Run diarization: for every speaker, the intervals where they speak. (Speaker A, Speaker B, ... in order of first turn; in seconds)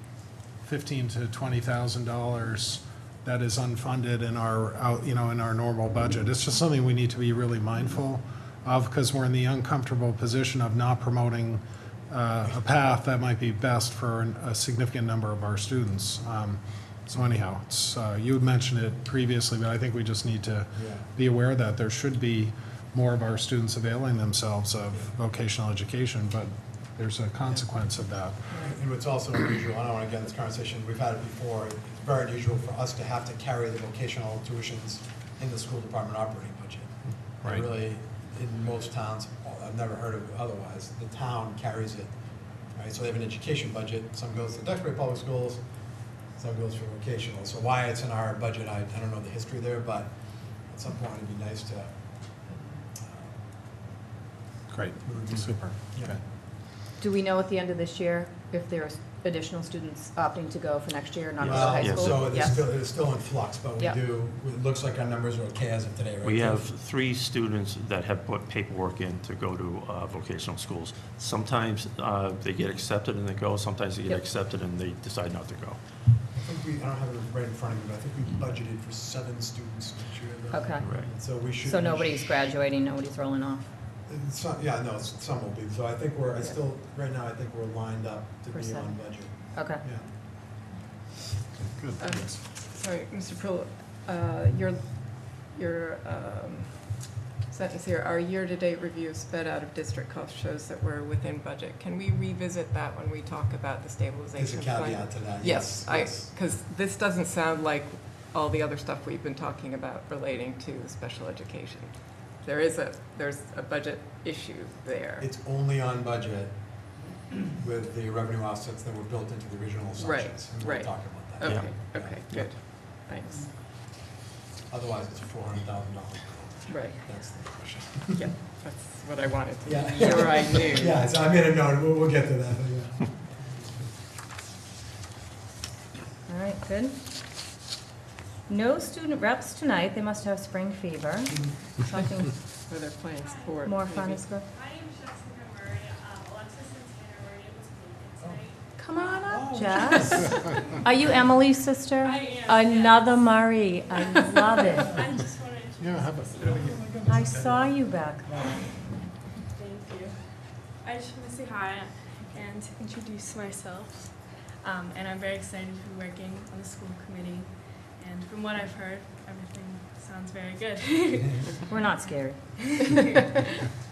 Speaker A: 0.6-28.5, 54.7-56.2, 155.8-156.8
Speaker B: 20.7-21.1, 28.5-42.1, 42.7-52.4, 53.0-53.3, 55.0-56.2, 61.4-66.6, 76.3-82.3, 84.0-90.1, 104.4-106.3, 115.2-116.6, 117.5-122.2, 124.7-128.3, 129.6-133.9, 149.3-150.5, 156.4-157.6
Speaker C: 28.5-28.8, 57.0-62.5, 80.5-83.7, 88.5-89.8, 136.3-136.9, 138.5-142.4, 143.6-144.4, 148.8-154.9, 157.1-158.4, 171.7-172.7
Speaker D: 61.4-62.3, 66.2-75.8, 80.8-81.2, 91.8-92.2, 121.4-121.7
Speaker E: 62.2-62.6, 92.0-115.3, 120.0-123.5, 126.7-127.0, 128.1-131.0, 142.7-144.2
Speaker F: 143.2-143.5, 144.5-150.5, 152.0-154.2, 154.9-156.9, 159.5-172.2